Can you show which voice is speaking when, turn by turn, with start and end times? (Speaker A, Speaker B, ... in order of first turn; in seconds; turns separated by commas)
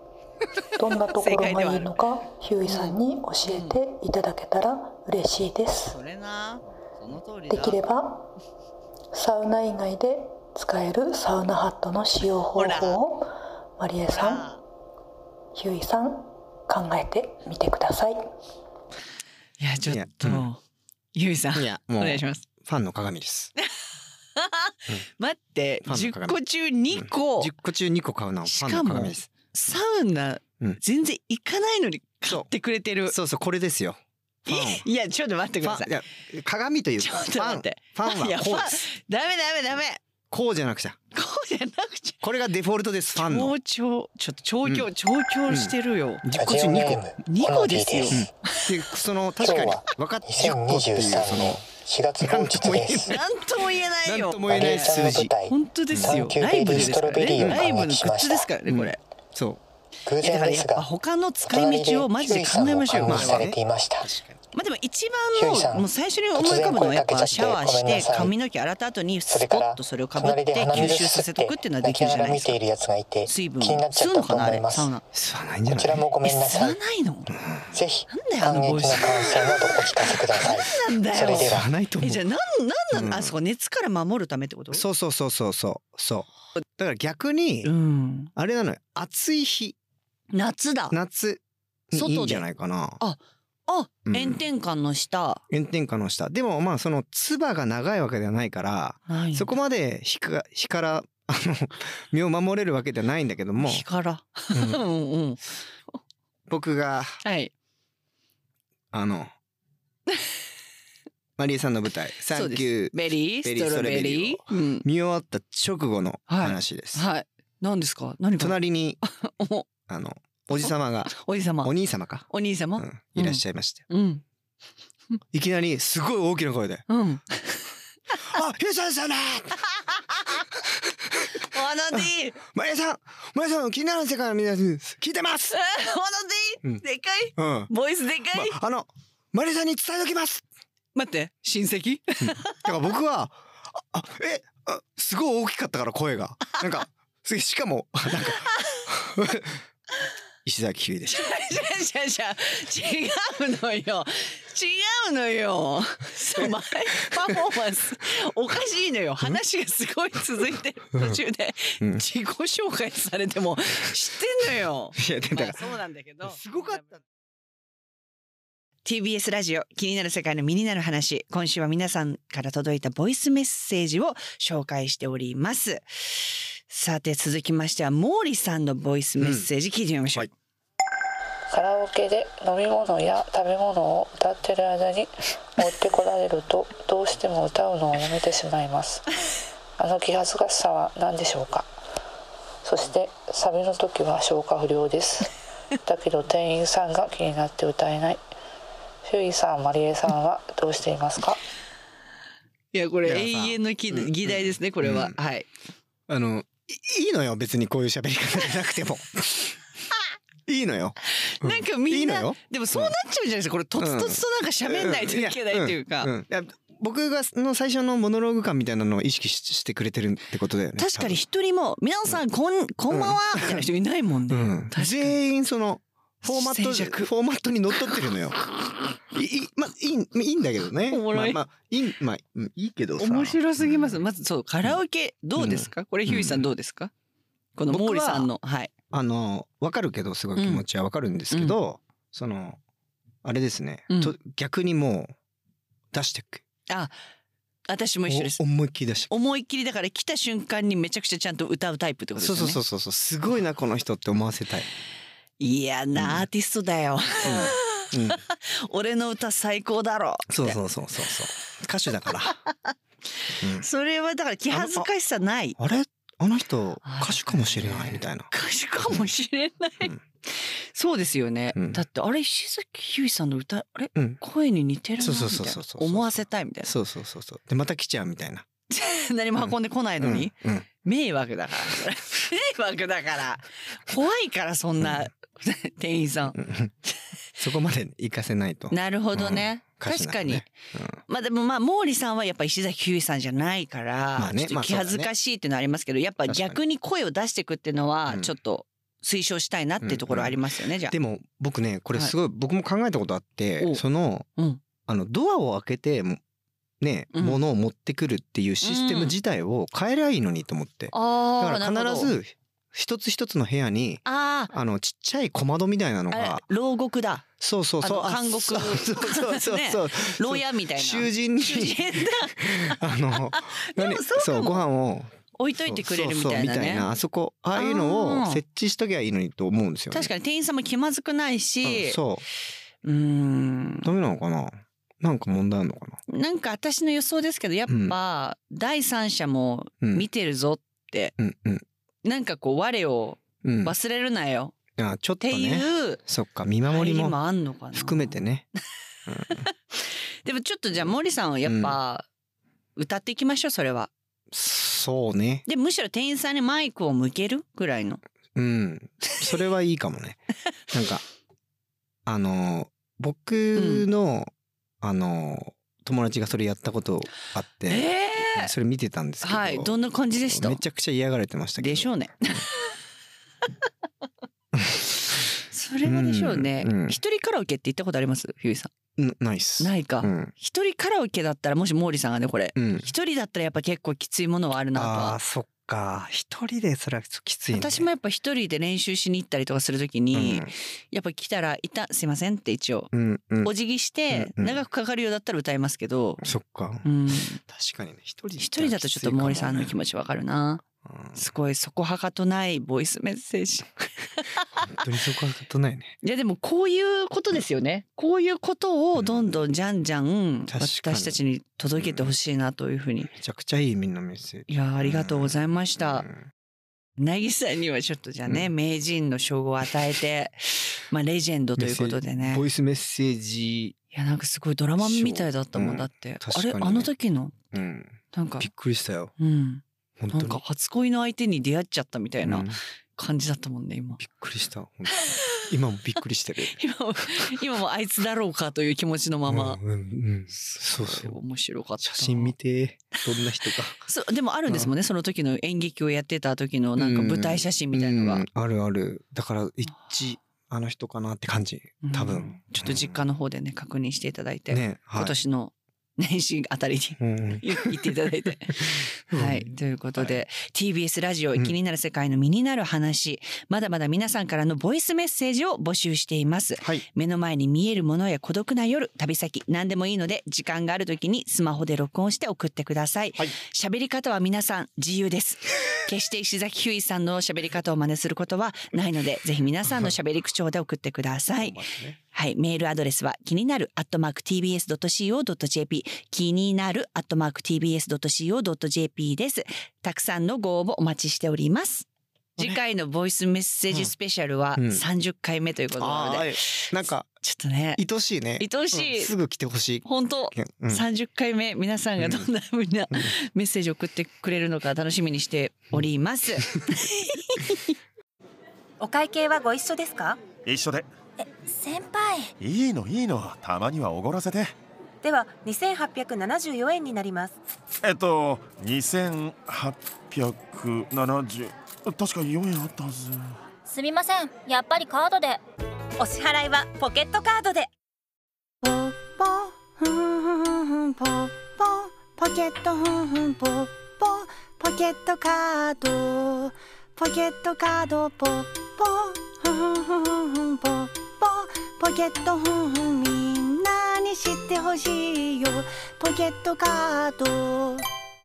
Speaker A: 0.8-6.0, Speaker B: 1.1-2.0, Speaker B: 2.7-3.8, Speaker B: 5.9-7.8, Speaker A: 7.5-8.3, Speaker A: 9.1-14.6, Speaker B: 12.6-13.0, Speaker B: 14.1-14.6, Speaker A: 15.6-18.2, Speaker B: 19.6-20.6, Speaker C: 19.9-20.5, Speaker B: 21.1-22.4, Speaker C: 21.6-23.5, Speaker B: 24.4-27.5, Speaker C: 25.9-26.4, Speaker C: 26.9-29.3, Speaker B: 28.5-33.1, Speaker C: 33.1-34.8, Speaker B: 34.5-35.9, Speaker C: 35.6-38.8, Speaker B: 37.0-40.0, Speaker C: 40.3-41.0, Speaker B: 41.1-42.2, Speaker C: 42.2-43.5, Speaker B: 43.2-46.6, Speaker C: 45.5-47.2, Speaker D: 46.3-48.3, Speaker B: 47.3-48.7, Speaker C: 48.1-51.7, Speaker D: 49.4-53.1, Speaker C: 52.2-53.2, Speaker B: 53.0-59.0, Speaker C: 54.0-55.3, Speaker D: 54.5-58.5, Speaker C: 55.9-57.6, Speaker C: 58.7-59.6, Speaker D: 60.1-60.9, Speaker B: 60.2-63.5, Speaker D: 61.4-64.1, Speaker C: 63.1-64.4, Speaker B: 64.5-72.6, Speaker D: 65.3-68.4, Speaker D: 69.3-74.9, Speaker C: 70.7-71.0, Speaker B: 73.2-75.0, Speaker C: 75.1-76.1, Speaker D: 75.7-76.8, Speaker B: 76.2-77.3, Speaker C: 77.3-77.7, Speaker D: 77.7-81.7, Speaker B: 78.1-84.8, Speaker C: 81.3-82.2, Speaker C: 82.9-83.3, Speaker C: 84.7-87.7, Speaker B: 87.7-88.3, Speaker C: 88.4-89.8, Speaker B: 90.3-91.0, Speaker C: 90.9-91.4, Speaker C: 91.9-93.0, Speaker B: 91.9-92.5, Speaker B: 93.0-95.4, Speaker C: 94.1-94.4, Speaker C: 95.5-103.8, Speaker B: 99.1-99.5, Speaker B: 103.6-105.4, Speaker C: 104.5-104.8, Speaker C: 106.5-107.2, Speaker B: 107.2-107.5, Speaker C: 108.9-109.3, Speaker C: 111.4-117.0, Speaker B: 112.3-114.8, Speaker B: 116.3-119.7, Speaker C: 118.4-119.0, Speaker C: 119.9-123.8, Speaker B: 120.6-121.7, Speaker B: 122.3-124.2, Speaker C: 125.3-126.9, Speaker B: 126.9-128.2, Speaker C: 128.2-129.9, Speaker C: 131.1-131.4, Speaker B: 131.4-132.4, Speaker C: 131.9-135.6, Speaker B: 135.5-138.6, Speaker C: 137.4-137.7, Speaker C: 138.3-140.4, Speaker B: 140.9-142.6, Speaker C: 142.2-149.6, Speaker B: 148.2-148.8, Speaker C: 150.4-151.3, Speaker B: 151.1-166.9, Speaker C: 165.0-165.6, Speaker C: 166.2-167.0, Speaker B: 168.8-180.3, Speaker C: 179.2-179.5, Speaker E: 181.5-189.1, Speaker E: 189.8-191.7, Speaker E: 192.6-195.3, Speaker E: 195.8-198.2, Speaker E: 199.0-201.4, Speaker B: 202.7-205.5, Speaker C: 203.1-205.1, Speaker C: 206.1-209.6, Speaker C: 210.5-212.9, Speaker B: 211.2-216.1, Speaker C: 213.8-221.2, Speaker B: 220.8-225.2, Speaker C: 222.9-223.7, Speaker C: 224.3-228.4, Speaker B: 226.2-227.1, Speaker C: 229.1-234.0, Speaker B: 230.9-231.4, Speaker B: 233.0-236.9, Speaker C: 235.4-236.5, Speaker B: 237.6-238.7, Speaker C: 237.7-238.3, Speaker C: 238.9-242.6, Speaker B: 240.4-240.6, Speaker C: 243.2-245.1, Speaker C: 245.9-246.4, Speaker B: 246.7-246.9, Speaker B: 247.7-248.4, Speaker C: 248.1-249.1, Speaker B: 249.1-252.6, Speaker C: 252.2-254.7, Speaker B: 255.4-261.1, Speaker C: 256.0-256.3, Speaker C: 257.2-258.2, Speaker C: 260.3-262.4, Speaker B: 262.3-262.7, Speaker C: 263.4-263.7, Speaker B: 263.6-265.6, Speaker C: 264.5-264.9, Speaker C: 265.6-269.1, Speaker B: 266.9-276.7, Speaker C: 271.6-271.8, Speaker C: 274.0-274.2, Speaker C: 275.0-278.5, Speaker B: 278.7-286.4, Speaker C: 280.0-280.7, Speaker C: 286.4-286.7, Speaker C: 287.4-291.0, Speaker B: 288.7-290.5, Speaker B: 291.1-300.9, Speaker C: 294.2-295.1, Speaker C: 296.3-296.6, Speaker C: 299.8-300.4, Speaker C: 300.9-304.3, Speaker C: 304.9-306.2, Speaker C: 306.8-316.4, Speaker B: 307.1-307.4, Speaker B: 308.6-309.2, Speaker B: 310.9-312.1, Speaker B: 314.1-314.5, Speaker B: 316.1-317.3, Speaker C: 317.4-330.1, Speaker B: 317.8-324.6, Speaker B: 325.4-326.9, Speaker B: 327.6-328.4, Speaker B: 329.9-332.0, Speaker C: 331.6-332.2, Speaker B: 332.8-333.9, Speaker C: 333.8-336.0, Speaker B: 336.1-341.1, Speaker C: 337.7-337.9, Speaker C: 339.8-340.1, Speaker C: 341.2-341.6, Speaker B: 342.1-344.6, Speaker C: 343.4-343.8, Speaker C: 344.8-347.2, Speaker B: 345.2-346.0, Speaker B: 346.7-348.2, Speaker C: 347.7-348.5, Speaker C: 349.1-349.5, Speaker B: 350.2-352.1, Speaker C: 351.5-351.8, Speaker B: 352.8-353.9, Speaker C: 354.3-355.4, Speaker B: 355.5-358.0, Speaker C: 358.4-361.0, Speaker C: 362.1-364.3, Speaker B: 363.6-363.9, Speaker C: 364.8-369.8, Speaker B: 367.7-368.5, Speaker B: 369.2-370.6, Speaker C: 370.3-372.4, Speaker B: 371.6-372.7, Speaker C: 374.6-374.9, Speaker B: 375.5-378.7, Speaker C: 375.9-377.0, Speaker C: 379.0-380.3, Speaker B: 379.6-385.2, Speaker C: 382.6-382.9, Speaker C: 384.8-387.9, Speaker B: 387.5-392.9, Speaker C: 390.1-390.5, Speaker C: 392.9-393.5, Speaker B: 393.4-396.3, Speaker C: 394.1-394.6, Speaker C: 396.2-396.9, Speaker B: 396.8-397.4, Speaker C: 397.4-399.8, Speaker B: 398.4-400.6, Speaker C: 400.9-401.2, Speaker B: 401.1-404.7, Speaker C: 404.6-406.0, Speaker B: 406.0-413.1, Speaker C: 409.0-409.4, Speaker C: 410.5-411.2, Speaker C: 411.8-412.1, Speaker C: 413.1-416.2, Speaker B: 414.5-416.1, Speaker B: 417.0-422.4, Speaker C: 421.6-423.8, Speaker B: 423.9-427.4, Speaker C: 424.8-426.9, Speaker C: 427.5-429.1, Speaker B: 428.1-428.5, Speaker B: 429.2-432.5, Speaker C: 430.0-430.4, Speaker C: 432.2-432.6, Speaker B: 433.0-434.0, Speaker C: 434.0-436.6, Speaker B: 436.6-439.6, Speaker C: 439.3-441.2, Speaker B: 440.3-442.3, Speaker C: 441.8-443.8, Speaker B: 443.5-448.2, Speaker C: 446.8-453.0, Speaker B: 451.8-491.9, Speaker C: 454.5-455.2, Speaker C: 457.0-457.9, Speaker C: 458.5-460.2, Speaker C: 479.7-479.9, Speaker C: 481.4-482.0, Speaker B: 492.4-497.8, Speaker C: 494.6-494.8, Speaker C: 495.8-497.2, Speaker C: 497.8-500.9, Speaker B: 498.4-499.1, Speaker B: 499.9-507.8, Speaker C: 502.0-502.3, Speaker F: 508.8-510.3, Speaker G: 510.4-510.9, Speaker H: 511.2-512.3, Speaker G: 512.4-514.6, Speaker F: 515.0-517.4, Speaker G: 517.8-523.4, Speaker H: 523.7-525.4, Speaker F: 526.0-527.7, Speaker I: 528.6-547.9